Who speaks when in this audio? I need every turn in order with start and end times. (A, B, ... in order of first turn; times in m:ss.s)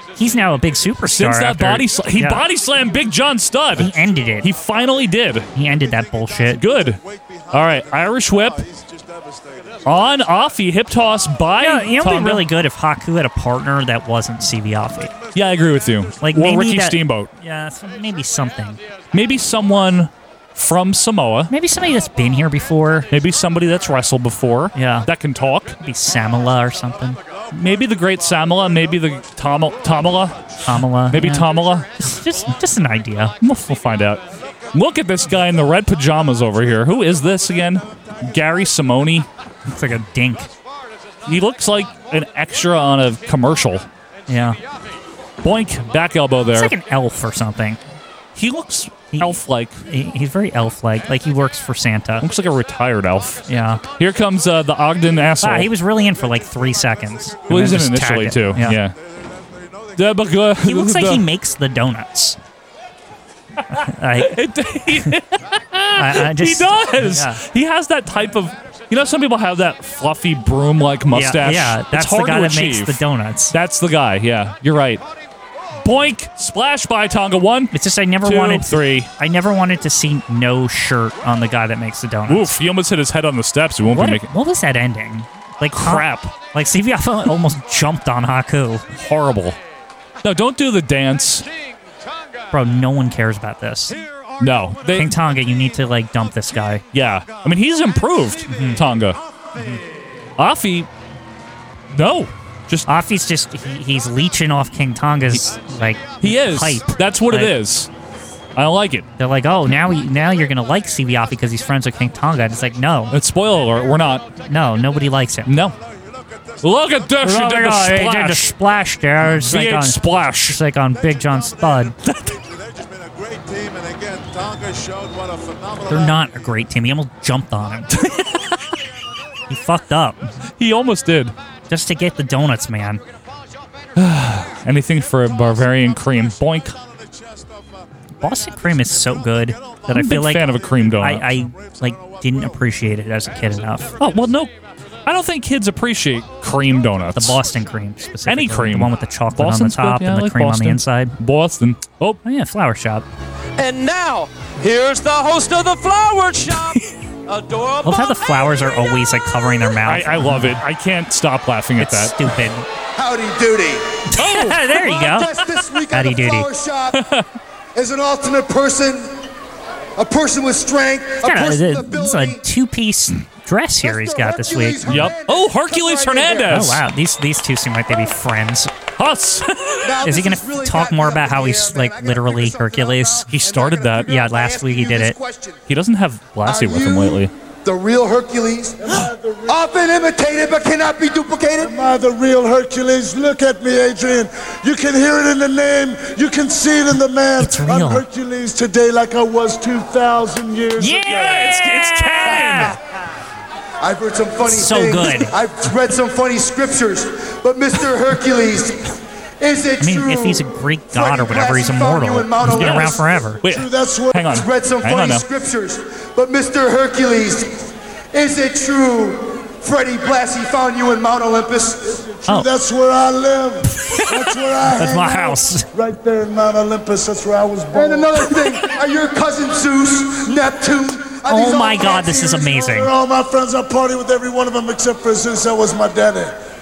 0:00.2-0:02.4 A
0:01.1-0:05.5 B
0:03.8-0:04.5 A
0:05.6-0:06.6 A
0:05.8-0:10.2 C
0:06.6-0:07.0 B
0:07.5-0:08.6 B
0:09.8-0:12.5 B
0:11.6-0:15.1 A
0:15.2-0:15.9 C
0:15.3-0:17.3 B
0:16.2-0:18.8 A
0:19.1-0:21.5 B
0:21.5-0:23.1 A
0:23.1-0:25.8 B
0:24.7-0:25.1 A
0:25.8-0:27.2 A
0:27.5-0:31.9 B
0:27.8-0:29.0 C
0:29.9-0:30.2 C
0:30.7-0:33.4 A
0:33.4-0:39.3 B
0:39.7-0:40.5 A
0:41.2-0:43.9 B
0:44.3-0:44.6 A
0:45.4-0:46.7 B
0:46.5-0:47.8 A
0:48.4-0:49.8 B
0:49.1-0:52.2 A
0:52.2-0:53.4 B
0:53.5-0:53.8 A
0:54.0-0:55.7 B
0:55.4-0:58.8 A
0:57.5-0:59.0 B
0:59.1-1:00.3 C
1:00.0-1:01.2 B
1:00.6-1:02.4 A
1:03.7-1:04.4 A
1:03.7-1:13.0 B
1:06.0-1:07.4 A
1:11.1-1:13.6 A
1:13.5-1:15.0 B
1:15.8-1:19.1 B
1:17.7-1:22.6 A
1:22.3-1:24.3 B
1:23.9-1:28.8 A
1:25.8-1:26.3 B
1:28.9-1:29.6 B
1:30.2-1:31.5 B
1:32.5-1:34.0 A
1:34.4-1:35.1 B
1:34.9-1:36.8 A
1:36.9-1:39.2 B
1:38.5-1:38.8 A
1:39.6-1:39.8 A
1:40.4-1:40.9 B
1:41.9-1:42.9 B
1:42.9-1:47.6 A
1:46.2-1:47.9 B
1:48.6-1:49.1 B
1:49.2-1:53.1 A
1:53.1-1:54.3 B
1:54.4-1:55.5 A
1:55.5-1:55.8 B
1:55.8-1:57.1 C
1:56.6-1:58.5 B
1:57.2-2:02.0 A
1:59.2-2:00.6 B
2:01.8-2:06.4 C
2:02.1-2:02.3 B
2:05.9-2:07.9 A
2:07.9-2:08.5 B
2:09.5-2:10.3 A
2:10.6-2:11.4 B
2:11.7-2:13.0 A
2:14.0-2:16.8 B
2:15.5-2:17.8 C
2:18.2-2:20.5 A
2:18.8-2:22.7 C
2:19.9-2:21.4 B
2:21.0-2:24.0 A
2:24.0-2:24.5 B
2:25.0-2:27.4 B
2:27.2-2:31.2 A
2:28.3-2:32.2 B
2:32.2-2:33.1 A
2:33.6-2:36.7 D
2:37.3-2:38.1 D
2:37.8-2:40.6 A
2:39.8-2:42.2 B
2:41.8-2:42.7 A
2:43.0-2:44.0 E
2:44.1-2:45.3 A
2:44.2-2:44.8 B
2:44.9-2:47.0 E
2:45.9-2:46.5 A
2:46.9-2:47.2 B
2:47.8-2:49.3 E
2:50.0-2:52.4 E
2:51.2-2:55.1 A
2:53.8-2:56.6 E
2:54.9-2:56.8 B
2:56.5-2:58.7 A
2:59.0-2:59.9 B
2:59.8-3:05.6 E
3:00.0-3:05.2 A
3:03.3-3:04.1 B
3:05.7-3:07.3 B
3:06.4-3:11.7 E
3:08.8-3:09.8 F
3:11.6-3:21.4 F
3:17.4-3:18.0 A
3:20.8-3:22.8 A
3:21.0-3:22.8 B
3:23.8-3:33.2 E
3:24.5-3:25.4 A
3:29.8-3:33.4 A
3:32.4-3:35.2 B
3:33.4-3:34.2 F
3:34.2-3:42.0 E
3:41.8-3:48.4 F
3:43.8-3:44.2 B
3:44.8-3:45.7 A
3:47.7-3:51.9 E
3:51.3-3:52.9 A
3:51.7-3:56.4 F